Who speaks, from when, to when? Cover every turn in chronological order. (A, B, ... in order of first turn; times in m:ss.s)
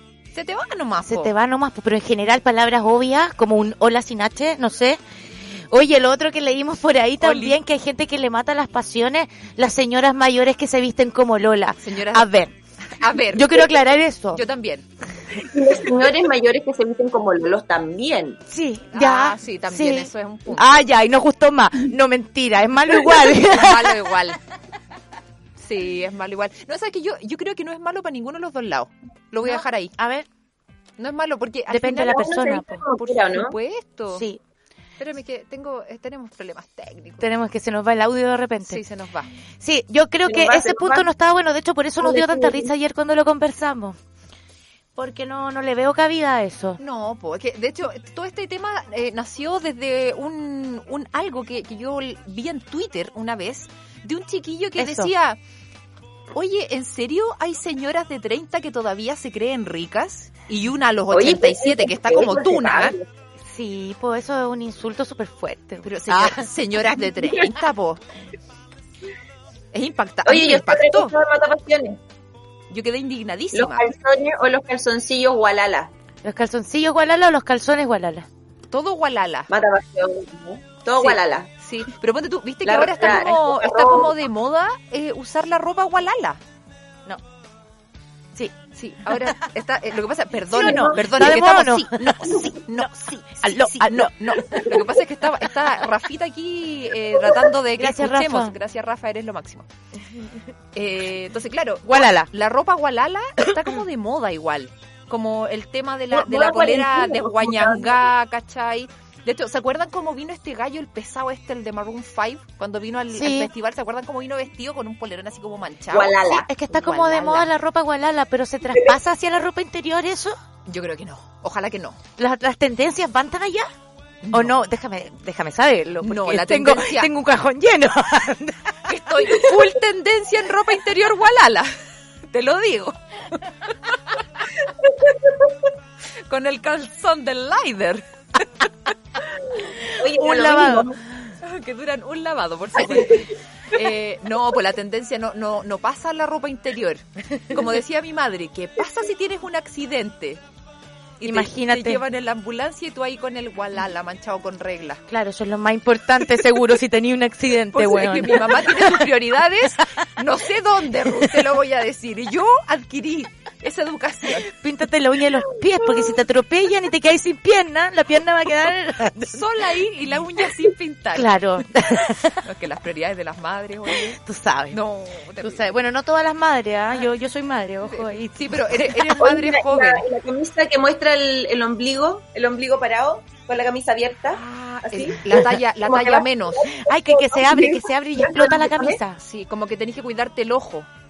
0:00.3-0:01.3 A
0:01.1-0:05.0 B
0:05.7-0:12.6 B
0:07.2-0:07.6 A
0:11.8-0:12.3 A
0:12.9-0:13.7 A
0:13.3-0:14.4 B
0:14.3-0:14.8 A
0:15.4-0:18.4 C
0:18.5-0:24.0 B
0:18.9-0:20.8 A
0:23.5-0:24.4 A
0:25.6-0:29.9 A
0:29.5-0:30.3 B
0:31.0-0:32.4 A
0:31.7-0:33.0 B
0:32.0-0:33.6 C
0:33.0-0:34.2 A
0:34.1-0:34.4 B
0:35.0-0:37.2 A
0:37.2-0:38.8 B
0:38.6-0:39.3 A
0:39.6-0:44.0 B
0:40.3-0:41.1 C
0:42.0-0:42.7 C
0:45.0-0:46.8 B
0:46.8-0:55.4 A
0:54.8-0:55.1 B
0:56.3-1:03.0 A
1:01.1-1:03.0 C
1:03.5-1:06.5 B
1:05.8-1:08.0 A
1:09.7-1:11.1 A
1:10.2-1:12.0 C
1:12.7-1:13.9 A
1:13.5-1:15.9 C
1:16.2-1:18.3 B
1:18.7-1:19.5 A
1:19.5-1:21.5 C
1:21.0-1:26.4 A
1:22.6-1:24.1 C
1:28.8-1:39.7 A
1:30.5-1:31.5 C
1:30.5-1:34.7 B
1:37.8-1:38.6 B
1:40.8-1:57.5 A
1:41.9-1:42.3 B
1:46.1-1:48.0 C
1:53.1-1:53.5 B
1:55.9-1:56.5 C
1:56.2-2:00.4 B
2:00.7-2:02.0 A
2:02.2-2:03.7 B
2:04.2-2:04.6 A
2:04.3-2:09.3 B
2:06.0-2:07.1 A
2:08.9-2:11.7 A
2:12.3-2:13.4 A
2:16.3-2:18.0 A
2:19.9-2:21.0 C
2:20.1-2:21.0 B
2:21.4-2:30.4 A
2:22.9-2:23.2 B
2:31.2-2:35.0 A
2:31.2-2:32.0 B
2:35.1-2:39.1 B
2:37.7-2:44.5 A
2:44.5-2:49.4 B
2:49.2-2:51.4 A
2:51.1-2:52.4 B
2:52.4-2:54.2 A
2:54.0-2:54.8 B
2:54.7-2:55.6 A
2:55.4-2:59.2 B
2:57.8-3:00.0 A
2:59.1-3:09.0 C
3:04.3-3:06.7 A
3:06.8-3:09.2 B
3:09.2-3:10.9 A